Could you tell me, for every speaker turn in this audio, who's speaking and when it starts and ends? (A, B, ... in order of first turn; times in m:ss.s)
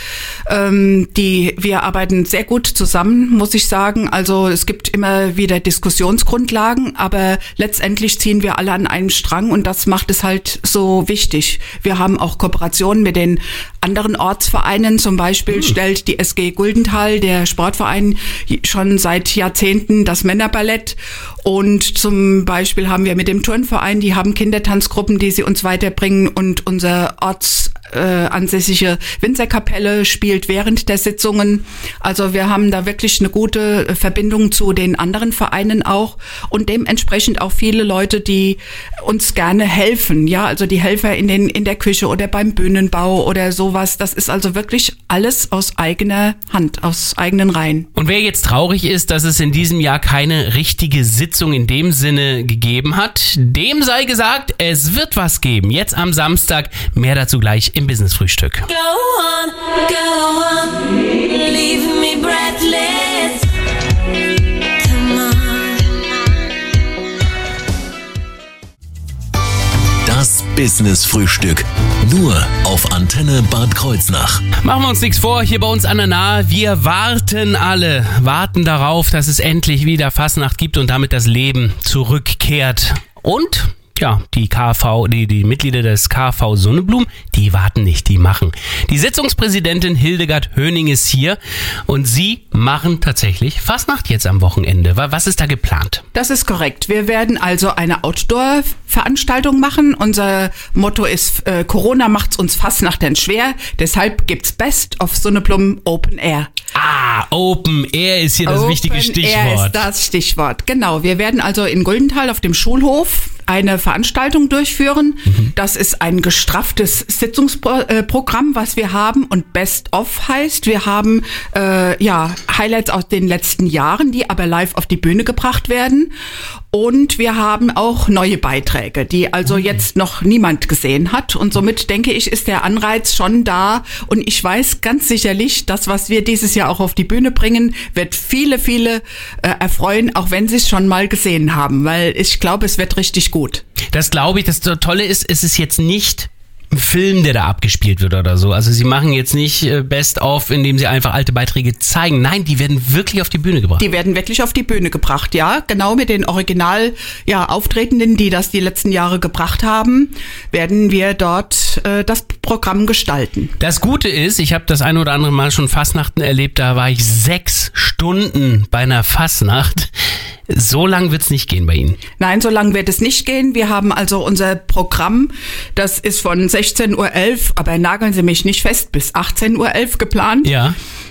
0:00.5-0:47.9 A
0:48.0-0:58.7 B
0:58.7-1:03.5 C
1:04.8-1:06.1 C
1:10.0-1:14.4 D
1:14.6-1:36.0 B
1:36.1-1:46.5 A
1:46.7-1:49.9 B
1:48.4-2:06.1 A
2:06.7-2:23.6 A
2:23.9-2:33.8 B
2:33.8-2:43.5 A
2:43.6-2:49.9 B
2:50.5-2:52.0 B
2:52.2-3:00.5 A
3:00.4-3:00.8 B